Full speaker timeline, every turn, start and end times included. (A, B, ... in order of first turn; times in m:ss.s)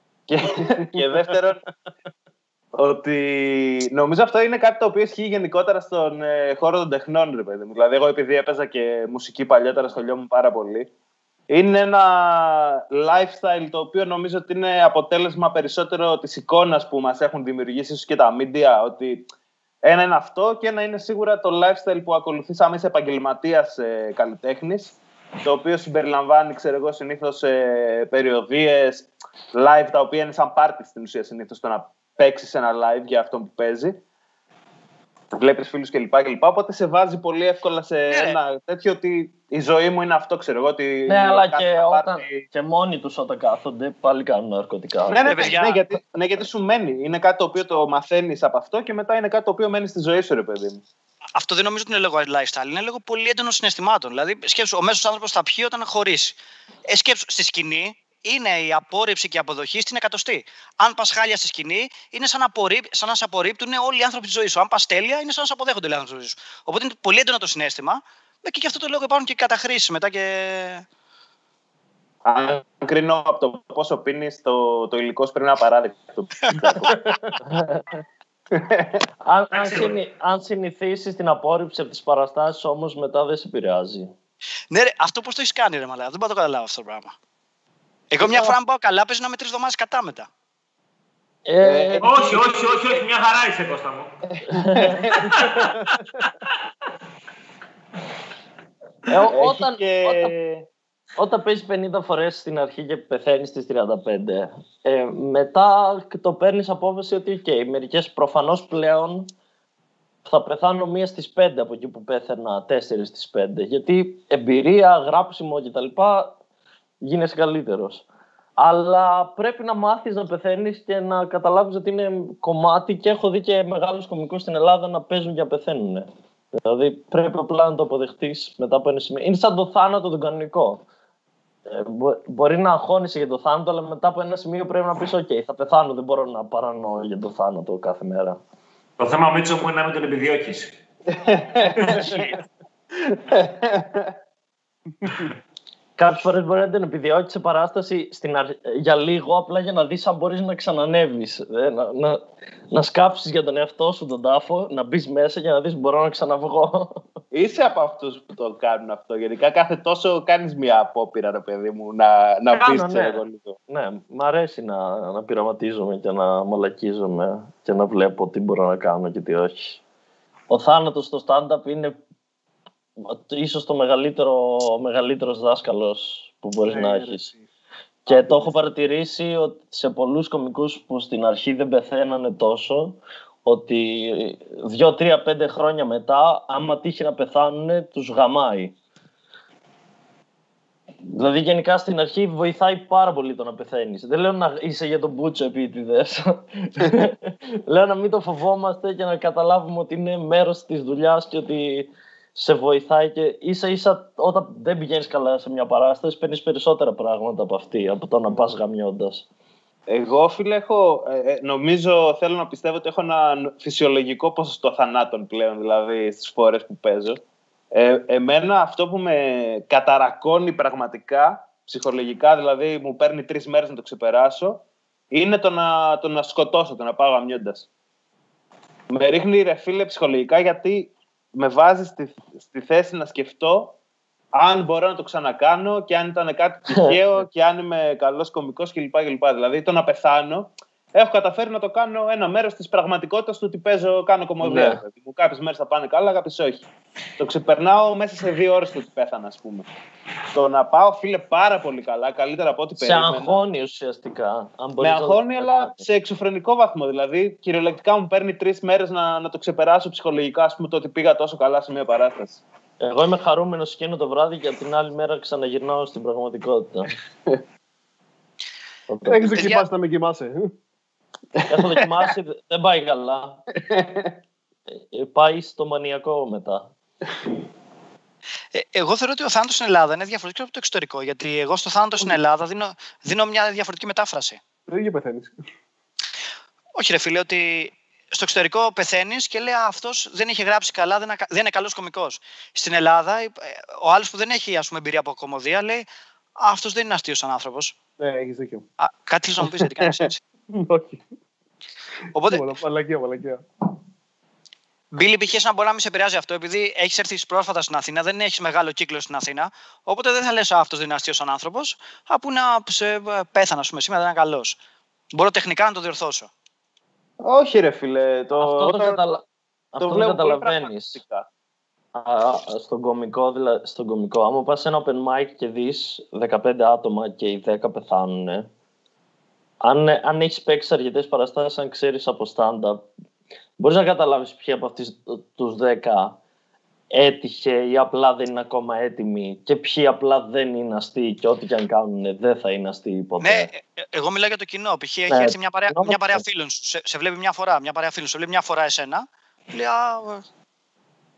0:00.3-0:01.6 A
0:02.7-0:10.9 A
0:11.5-0:19.3 A
0:19.8-0:34.0 A
0:35.3-0:42.4 A
0:38.1-0:38.4 B
0:41.1-0:45.7 C
0:45.1-0:50.8 A
0:45.2-0:45.8 B
0:51.4-0:56.4 B
0:56.9-1:10.8 B
1:12.2-1:17.0 A
1:17.4-1:17.8 C
1:18.5-1:19.0 A
1:19.2-1:24.1 C
1:19.5-1:20.0 D
1:24.7-1:27.1 B
1:28.1-1:30.3 B
1:31.5-1:32.3 C
1:31.6-1:33.0 A
1:32.0-1:34.1 D
1:34.3-1:35.4 A
1:34.5-1:35.5 C
1:35.1-1:35.8 D
1:39.1-1:40.4 C
1:39.2-1:40.7 A
1:41.2-1:49.3 C
1:50.3-1:56.4 C
1:57.0-1:58.0 C
1:58.6-2:06.1 C
2:06.6-2:10.8 C
2:11.7-2:18.4 C
2:19.0-2:20.7 D
2:21.1-2:22.4 A
2:22.9-2:24.2 A
2:26.0-2:37.0 C
2:37.3-2:43.6 A
2:42.5-2:49.8 C
2:50.5-2:52.0 C
2:53.0-2:57.3 C
2:56.7-2:57.4 E
2:58.1-2:58.6 E
2:58.1-3:08.7 C
3:11.1-3:29.3 C
3:29.9-3:37.2 A
3:37.7-3:47.7 A
3:48.9-3:53.8 A
3:54.3-4:06.7 A
3:56.7-3:57.0 C
4:04.4-4:04.8 C
4:07.2-4:09.7 A
4:10.3-4:13.4 A
4:12.8-4:15.8 C
4:14.8-4:22.4 A
4:22.8-4:26.9 C
4:28.9-4:29.4 C
4:29.0-4:30.5 E
4:29.3-4:29.6 B
4:31.5-4:33.4 C
4:33.7-4:34.2 A
4:34.9-4:36.7 C
4:38.5-4:44.4 B
4:44.7-4:45.4 E
4:46.8-4:55.9 B
4:56.4-4:57.7 B
4:58.0-4:58.6 E
4:58.8-5:00.2 B
5:00.5-5:01.0 E
5:02.1-5:02.5 B
5:02.3-5:03.4 E
5:04.9-5:14.6 B
5:15.1-5:16.3 B
5:17.2-5:19.0 A
5:18.4-5:21.0 C
5:19.8-5:21.3 A
5:22.0-5:28.5 C
5:29.6-5:32.9 C
5:33.6-5:36.2 C
5:36.9-5:43.5 C
5:43.2-5:50.2 B
5:45.1-5:46.2 C